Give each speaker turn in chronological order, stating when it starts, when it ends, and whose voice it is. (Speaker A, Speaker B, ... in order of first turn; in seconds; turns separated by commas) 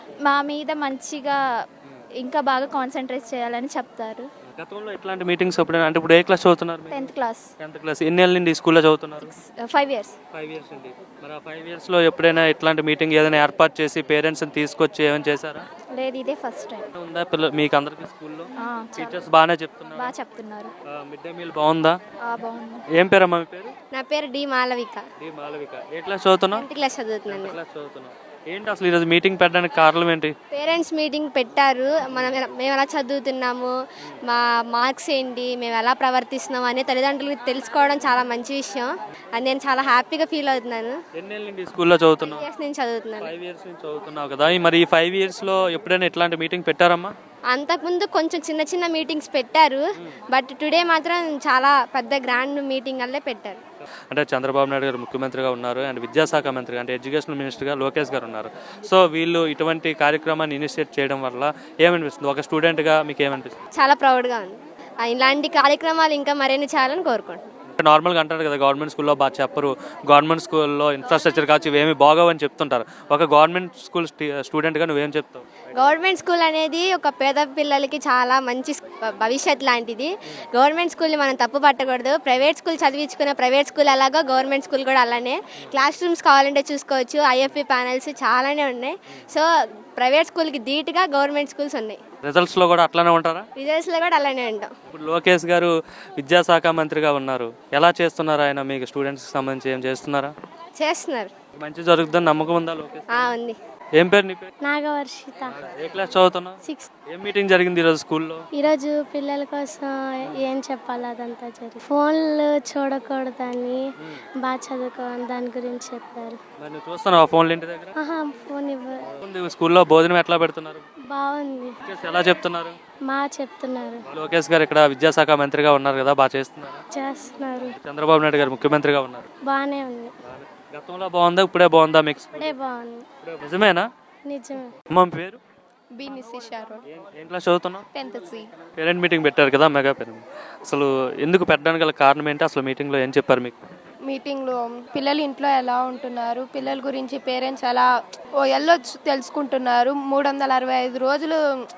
Speaker A: 0.2-1.4, Speaker A: 2.2-4.3, Speaker B: 4.5-9.3, Speaker A: 6.9-7.5, Speaker A: 9.2-10.2, Speaker B: 10.3-15.7, Speaker A: 15.9-16.9, Speaker B: 16.9-20.1, Speaker A: 18.6-19.3, Speaker A: 20.0-20.7, Speaker B: 20.9-22.0, Speaker A: 22.2-22.8, Speaker B: 22.9-23.7, Speaker C: 23.9-25.0, Speaker B: 25.2-26.6, Speaker C: 26.5-27.6, Speaker B: 27.3-30.3, Speaker C: 30.5-41.0, Speaker B: 32.1-32.4, Speaker B: 41.1-42.5, Speaker C: 42.2-43.3, Speaker B: 43.2-47.1, Speaker C: 47.5-53.6, Speaker B: 54.1-63.6, Speaker C: 63.8-67.5, Speaker B: 67.8-75.9, Speaker C: 75.7-92.0, Speaker B: 92.2-93.5, Speaker C: 93.6-94.7, Speaker B: 94.9-100.3, Speaker C: 100.8-101.3, Speaker B: 101.5-103.3, Speaker C: 103.1-103.6, Speaker B: 104.0-104.5, Speaker D: 104.7-105.6, Speaker B: 105.5-106.6, Speaker D: 106.7-106.9, Speaker B: 107.1-108.5, Speaker D: 108.6-113.8, Speaker D: 114.4-116.4, Speaker B: 116.6-117.9, Speaker D: 118.0-119.1, Speaker B: 119.2-120.8, Speaker D: 121.1-121.8, Speaker B: 121.8-122.8, Speaker D: 123.1-124.0, Speaker B: 124.1-126.8, Speaker D: 126.9-127.8, Speaker B: 127.7-129.3, Speaker D: 129.5-130.1, Speaker B: 130.3-132.6, Speaker D: 132.4-133.1, Speaker B: 133.2-133.9, Speaker D: 134.3-134.7, Speaker B: 134.9-135.4, Speaker E: 136.0-136.8, Speaker B: 136.9-137.8, Speaker E: 137.9-138.4, Speaker B: 138.8-143.6, Speaker E: 144.1-147.9, Speaker E: 148.4-151.4